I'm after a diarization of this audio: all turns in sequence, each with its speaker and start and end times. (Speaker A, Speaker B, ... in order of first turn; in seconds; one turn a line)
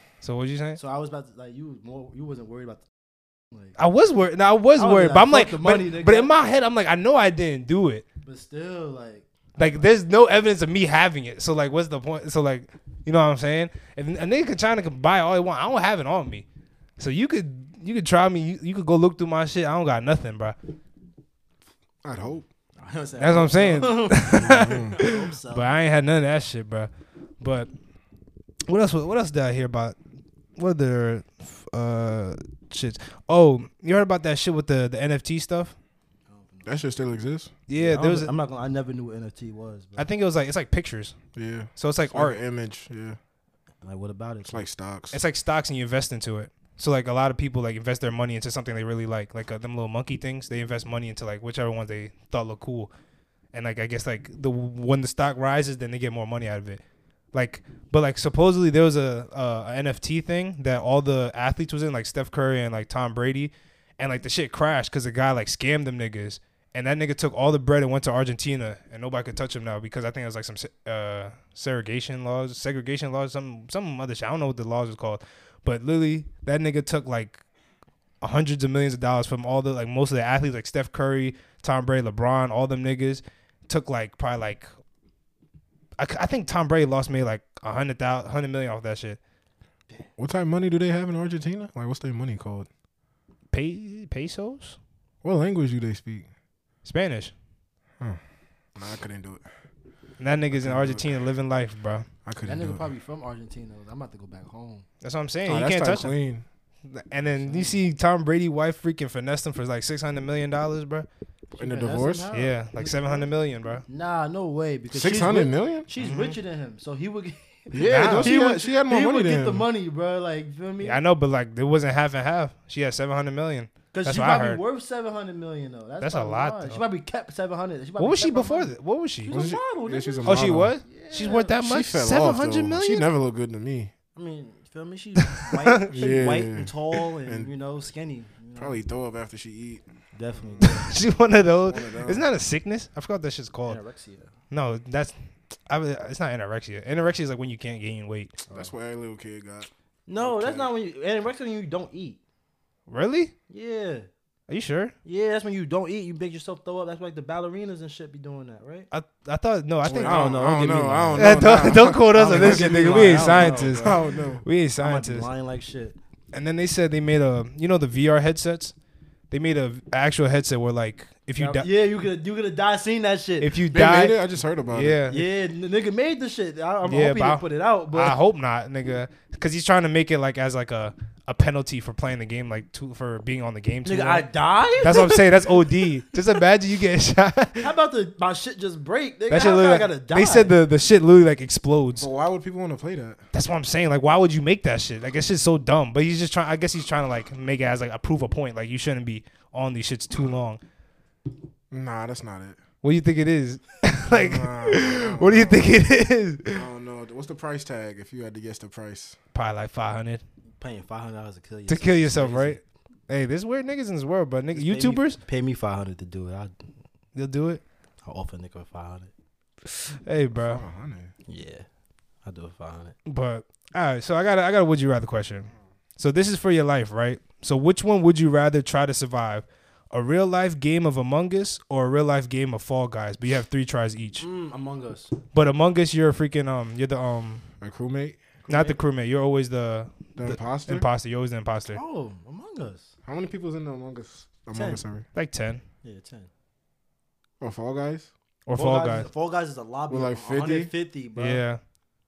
Speaker A: 0.2-0.8
Speaker B: 0.8-2.9
Speaker A: 3.8-8.1
Speaker B: 4.8-6.3
Speaker B: 8.3-9.8
Speaker A: 9.6-16.4
Speaker A: 17.0-20.6
Speaker C: 22.0-22.5
Speaker B: 22.8-25.7
Speaker A: 23.2-27.7
Speaker C: 24.3-25.0
Speaker A: 28.7-30.0
Speaker A: 30.6-35.8
Speaker B: 36.3-36.8
Speaker C: 36.7-37.5
Speaker A: 37.7-38.3
Speaker B: 37.8-40.1
Speaker A: 40.0-41.1
Speaker C: 41.4-43.2
Speaker A: 41.8-42.4
Speaker B: 43.8-44.6
Speaker C: 44.5-45.2
Speaker A: 45.1-52.9
Speaker A: 53.5-56.8
Speaker A: 57.3-77.4
Speaker A: 78.2-84.7
Speaker A: 86.0-89.2
Speaker C: 90.2-92.7
Speaker A: 93.5-94.8
Speaker C: 95.2-96.3
Speaker A: 96.8-97.3
Speaker C: 98.8-99.5
Speaker A: 100.2-102.1
Speaker C: 100.5-101.2
Speaker C: 102.2-102.9
Speaker B: 102.5-104.9
Speaker A: 105.0-106.1
Speaker C: 105.5-106.5
Speaker A: 106.8-111.1
Speaker B: 107.4-107.8
Speaker B: 111.5-113.3
Speaker C: 111.6-112.3
Speaker A: 112.3-113.8
Speaker B: 113.9-121.0
Speaker C: 114.9-115.9
Speaker A: 116.0-116.4
Speaker C: 117.7-119.7
Speaker A: 117.9-118.4
Speaker A: 120.8-124.6
Speaker B: 123.9-128.7
Speaker A: 126.0-126.8
Speaker A: 128.0-129.3
Speaker B: 129.2-131.6
Speaker C: 129.3-130.7
Speaker A: 130.3-133.1
Speaker C: 131.6-133.9
Speaker B: 134.2-138.8
Speaker A: 135.3-135.9
Speaker C: 135.9-136.8
Speaker C: 138.6-139.8
Speaker B: 140.2-140.9
Speaker C: 140.4-140.8
Speaker A: 140.6-143.8
Speaker C: 141.6-142.3
Speaker B: 143.7-144.3
Speaker A: 144.5-145.1
Speaker A: 145.7-148.4
Speaker C: 148.5-150.7
Speaker B: 150.1-152.2
Speaker A: 152.9-153.3
Speaker B: 153.5-154.1
Speaker A: 154.5-154.9
Speaker B: 155.1-158.9
Speaker A: 158.9-160.4
Speaker C: 159.8-164.4
Speaker B: 159.9-161.4
Speaker A: 161.2-165.3
Speaker B: 162.1-163.9
Speaker B: 164.8-166.0
Speaker A: 166.3-168.7
Speaker A: 169.3-171.7
Speaker B: 171.4-173.5
Speaker A: 173.4-174.2
Speaker C: 173.7-175.0
Speaker A: 174.7-175.3
Speaker B: 175.1-178.2
Speaker A: 176.8-184.3
Speaker B: 183.8-185.8
Speaker A: 184.8-187.7
Speaker B: 187.6-190.5
Speaker A: 189.3-192.1
Speaker C: 192.0-193.2
Speaker A: 193.3-200.6
Speaker C: 201.7-202.6
Speaker A: 202.8-206.7
Speaker C: 204.1-205.8
Speaker C: 206.5-209.2
Speaker A: 209.3-210.2
Speaker B: 210.6-212.6
Speaker A: 211.7-215.2
Speaker B: 214.5-216.6
Speaker A: 217.2-217.6
Speaker B: 218.1-219.1
Speaker A: 219.9-220.6
Speaker C: 220.3-221.1
Speaker B: 221.3-221.7
Speaker B: 222.2-222.9
Speaker A: 223.1-234.2
Speaker B: 234.2-235.1
Speaker A: 235.3-237.4
Speaker C: 237.6-238.2
Speaker B: 238.4-238.8
Speaker A: 238.5-241.8
Speaker C: 240.2-240.9
Speaker B: 241.7-242.9
Speaker C: 243.1-245.1
Speaker B: 244.5-244.8
Speaker A: 245.2-245.6
Speaker B: 245.8-246.3
Speaker C: 247.4-248.1
Speaker A: 248.5-249.1
Speaker B: 248.6-251.4
Speaker C: 249.9-250.7
Speaker A: 251.2-251.6